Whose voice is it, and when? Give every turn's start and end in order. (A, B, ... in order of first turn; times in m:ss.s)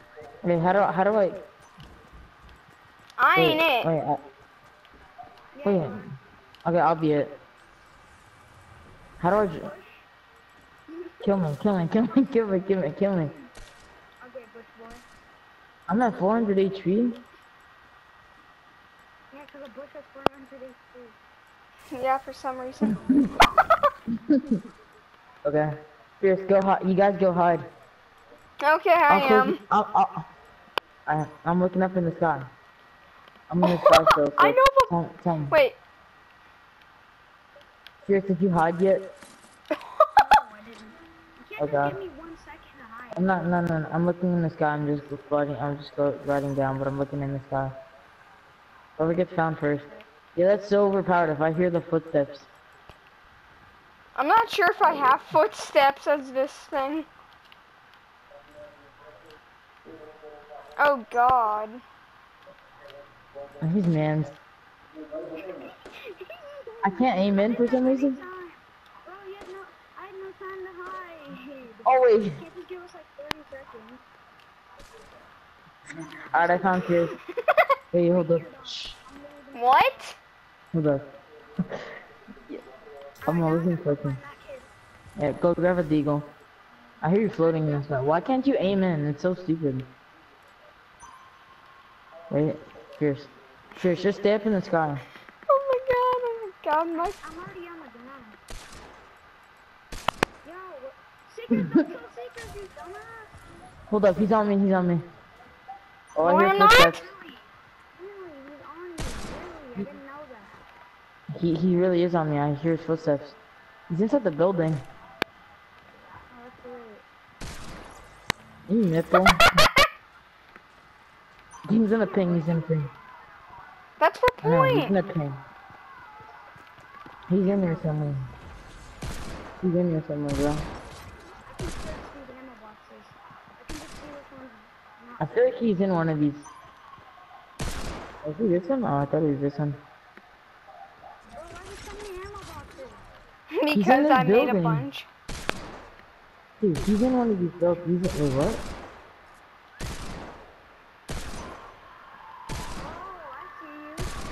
0:00.4-0:01.4 A
0:03.2-0:03.9 B
0:03.3-0:04.2 A
0:05.5-0:06.1 C
0:05.6-0:06.0 A
0:06.6-0:07.4 A
0:09.2-0:09.7 A
0:09.6-0:10.0 C
0:10.9-0:11.3 C
0:11.2-0:13.3 A
0:14.2-0:15.0 C
0:15.9-0:17.2 A
0:19.3-0:21.2 C
0:21.9-0:23.2 B
0:24.3-0:24.6 A
0:25.4-0:27.7 A
0:28.6-0:29.6 B
0:29.1-0:30.2 A
0:31.1-0:32.5 A
0:33.5-0:35.6 A
0:33.6-0:34.9 B
0:35.5-0:35.8 B
0:38.0-0:39.1 A
0:40.2-0:43.5 C
0:41.6-0:42.0 A
0:43.1-0:47.8 A
0:49.0-0:52.5 A
0:54.1-0:57.1 B
1:00.8-1:01.8 B
1:03.6-1:04.3 A
1:05.5-1:14.0 C
1:06.8-1:08.2 A
1:11.8-1:12.4 A
1:16.3-1:17.1 A
1:16.5-1:17.1 C
1:17.9-1:18.9 A
1:18.1-1:20.0 C
1:19.5-1:20.2 B
1:20.7-1:21.0 A
1:23.2-1:24.2 A
1:23.2-1:24.7 C
1:25.2-1:26.3 A
1:27.0-1:29.9 A
1:27.3-1:28.3 C
1:32.3-1:35.0 A
1:35.5-1:37.2 B
1:37.0-1:38.4 C
1:40.4-1:43.3 C
1:43.9-1:45.1 A
1:46.1-1:47.1 A
1:46.2-1:47.0 B
1:46.8-1:50.6 C
1:51.4-1:53.4 A
1:53.9-1:54.8 A
1:56.3-1:57.0 C
1:58.7-1:59.6 A
2:01.7-2:02.9 A
2:02.0-2:02.9 C
2:04.0-2:05.0 B
2:04.4-2:05.4 A
2:07.3-2:08.2 A
2:07.4-2:08.0 C
2:09.6-2:10.6 A
2:11.4-2:15.6 C
2:15.2-2:16.5 A
2:18.2-2:19.8 A
2:21.4-2:23.1 C
2:23.5-2:25.1 B
2:23.7-2:24.8 A
2:26.6-2:28.6 A
2:32.8-2:34.1 C